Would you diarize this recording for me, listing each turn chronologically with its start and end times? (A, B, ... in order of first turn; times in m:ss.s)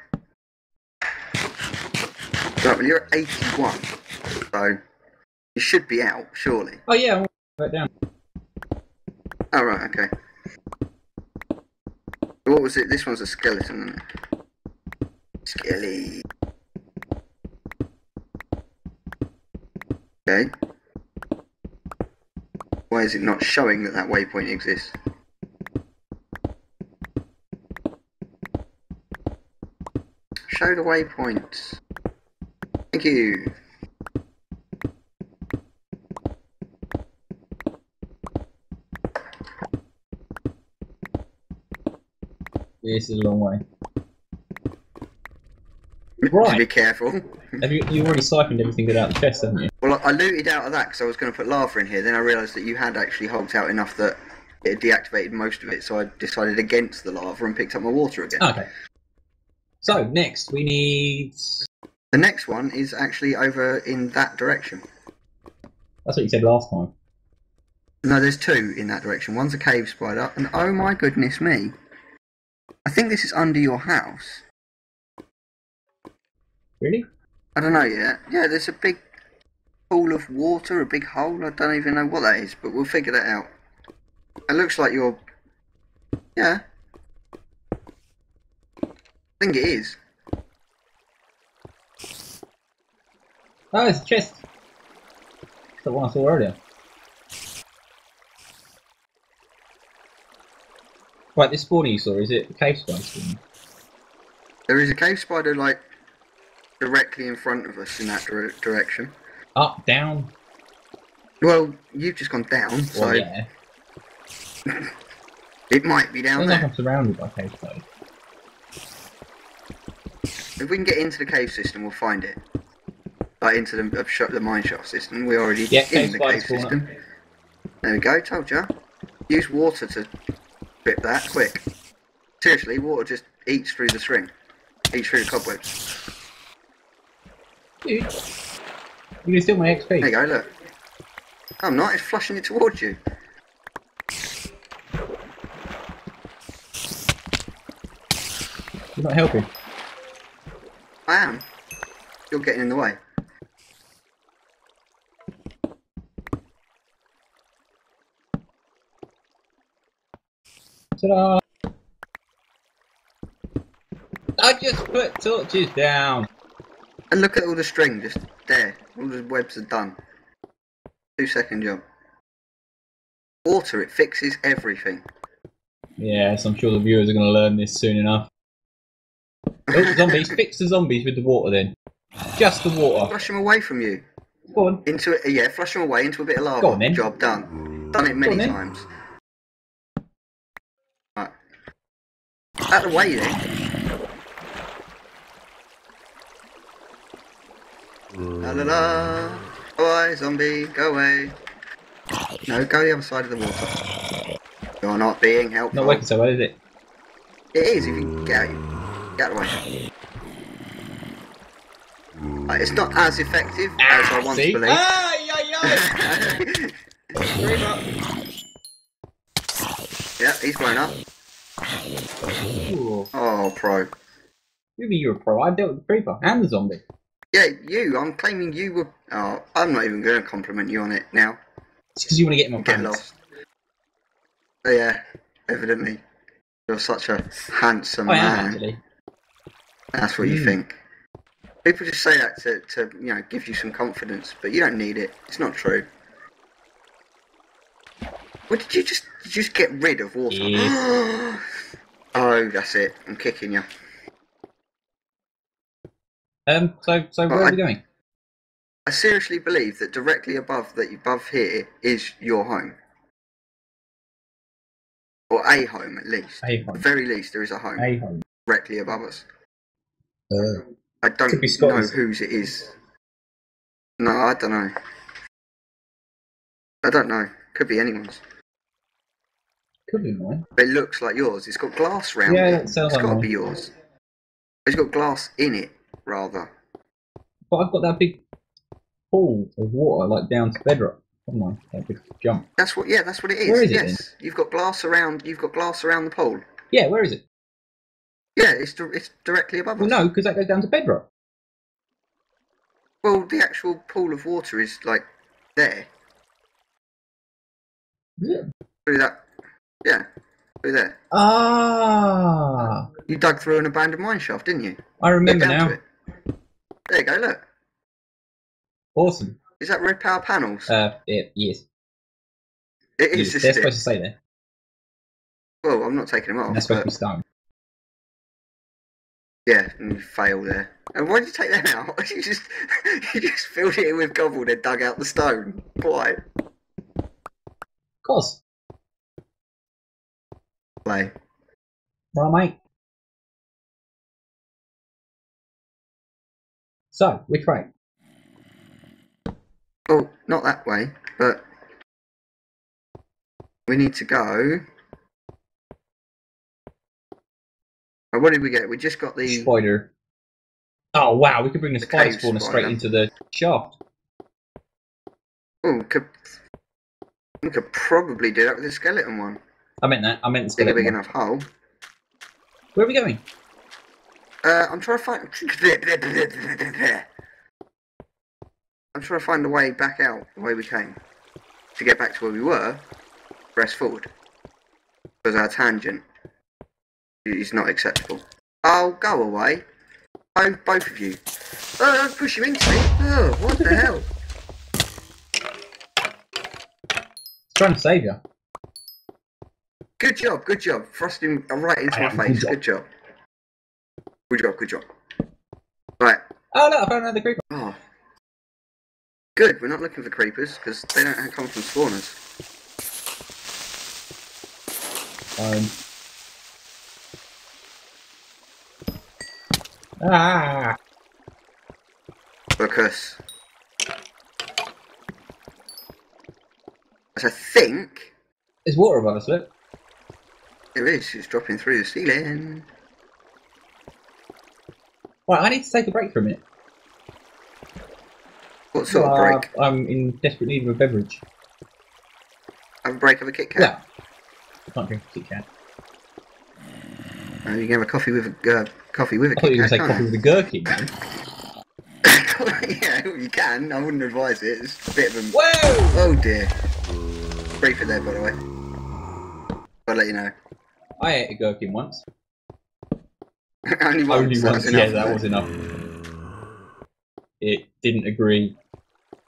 0:02.6-0:03.9 A
0:04.5-0:04.8 A
0:05.6-0:06.8 A
0:06.9-0:07.9 B
0:09.5-0:10.1 A
0:12.5-0:14.0 A
0:15.5-0:16.2 A
0:22.9-0:25.0 A
0:30.5-0:31.8 A
0:32.9-0:33.5 A
0:42.8-0:43.6 B
0:46.2-0:47.3 A
0:46.3-0:46.6 B
0:47.6-0:49.7 B
0:49.8-0:58.5 A
0:58.4-0:58.7 B
0:59.8-1:01.7 B
1:02.1-1:04.8 A
1:06.1-1:06.9 B
1:08.0-1:11.7 A
1:12.9-1:14.4 A
1:17.6-1:19.0 A
1:19.9-1:23.5 A
1:24.5-1:25.2 A
1:26.4-1:26.6 A
1:29.4-1:30.0 A
1:33.7-1:34.4 B
1:35.8-1:36.6 B
1:41.4-1:43.4 B
1:44.7-1:45.8 A
1:46.8-1:49.1 A
1:49.6-1:50.3 B
1:51.4-1:53.3 A
1:52.9-1:53.4 B
1:55.7-1:56.7 A
1:56.4-1:57.8 B
2:00.6-2:02.4 A
2:03.4-2:06.9 A
2:05.7-2:06.8 B
2:07.8-2:08.7 A
2:09.3-2:10.1 A
2:10.8-2:11.6 A
2:12.4-2:14.3 A
2:14.9-2:15.8 A
2:17.8-2:18.1 B
2:19.2-2:20.1 B
2:20.0-2:20.5 A
2:21.6-2:23.0 A
2:29.0-2:29.5 B
2:31.1-2:31.4 A
2:32.3-2:33.0 A
2:41.0-2:41.4 B
2:44.4-2:46.3 B
2:47.1-2:50.0 A
2:51.2-2:51.8 A
2:53.4-2:55.0 A
2:56.0-2:58.3 B
2:59.7-3:00.2 A
2:59.7-3:01.7 B
3:02.4-3:03.2 B
3:03.0-3:04.0 A
3:04.5-3:04.8 B
3:04.9-3:08.9 A
3:06.6-3:07.0 B
3:08.2-3:08.6 B
3:12.7-3:13.4 A
3:18.4-3:21.4 A
3:22.5-3:23.8 A
3:24.8-3:26.0 A
3:25.7-3:26.6 B
3:27.5-3:28.6 A
3:29.2-3:29.6 A
3:32.5-3:34.8 A
3:33.8-3:36.4 B
3:35.7-3:36.7 A
3:37.2-3:37.8 B
3:40.2-3:41.0 A
3:42.6-3:43.1 B
3:43.1-3:43.9 A
3:44.8-3:46.8 B
3:47.3-3:51.4 A
3:52.0-3:53.0 B
3:52.6-3:53.2 A
3:54.6-3:56.0 A
3:56.7-3:58.6 A
3:58.1-3:58.8 B
4:00.0-4:00.8 A
4:00.2-4:00.6 B
4:01.6-4:05.9 A
4:08.5-4:11.4 A
4:10.3-4:10.8 B
4:12.2-4:13.7 A
4:16.5-4:17.8 B
4:17.3-4:17.6 A
4:18.9-4:22.8 A
4:25.3-4:27.9 A
4:26.4-4:26.8 B
4:27.8-4:28.2 B
4:28.5-4:29.2 A
4:30.3-4:30.7 B
4:31.0-4:32.8 A
4:31.3-4:32.0 B
4:34.0-4:34.7 A
4:36.8-4:38.2 A
4:39.9-4:40.4 B
4:40.6-4:43.7 A
4:42.3-4:43.3 B
4:44.7-4:46.5 A
4:47.5-4:48.2 B
4:49.1-4:52.5 B
4:52.6-4:56.4 A
4:53.5-4:54.0 B
4:56.7-4:57.2 B
4:58.4-5:00.1 A
4:59.8-5:01.1 B
5:03.0-5:05.9 A
5:08.2-5:08.5 B
5:08.9-5:09.2 A
5:10.6-5:11.0 A
5:11.1-5:12.9 B
5:13.1-5:15.8 A
5:15.0-5:15.8 B
5:16.9-5:17.4 A
5:19.0-5:19.4 B
5:19.6-5:20.7 A
5:20.7-5:21.6 B
5:23.0-5:23.7 A
5:23.1-5:24.2 B
5:25.6-5:26.9 A
5:26.5-5:27.2 B
5:29.5-5:36.2 A
5:38.0-5:38.4 B
5:40.8-5:41.1 A
5:42.2-5:42.6 B
5:46.9-5:47.7 B
5:49.9-5:51.4 A
5:53.7-5:54.6 A
5:58.1-5:59.5 A
5:59.3-5:59.9 B
6:01.0-6:03.8 B
6:01.8-6:02.8 A
6:05.6-6:06.1 A
6:07.4-6:09.4 A
6:09.8-6:11.0 B
6:10.6-6:11.5 A
6:12.8-6:13.2 B
6:14.4-6:17.1 A
6:19.0-6:21.0 A
6:21.8-6:22.8 A
6:23.6-6:24.1 A
6:25.2-6:26.0 A
6:27.3-6:29.6 A
6:30.4-6:31.2 A
6:31.8-6:34.1 A
6:37.5-6:38.2 B
6:40.0-6:42.8 A
6:41.9-6:42.6 B
6:44.3-6:44.8 A
6:46.5-6:47.4 B
6:47.5-6:47.8 A
6:49.4-6:52.2 A
6:55.4-6:55.7 B
7:00.0-7:00.8 B
7:02.6-7:03.2 A
7:07.2-7:08.1 A
7:08.7-7:09.5 B
7:10.8-7:12.7 A
7:15.3-7:16.4 B
7:18.7-7:19.5 A
7:18.9-7:21.2 B
7:22.8-7:23.7 A
7:23.6-7:23.8 B
7:24.7-7:25.4 B
7:27.5-7:30.1 A
7:29.4-7:30.9 B
7:32.1-7:35.4 A
7:35.3-7:36.1 B
7:35.9-7:36.5 A
7:37.6-7:38.4 A
7:39.9-7:40.3 A
7:41.0-7:42.0 B
7:43.7-7:45.2 A
7:44.1-7:45.5 B
7:47.4-7:48.6 B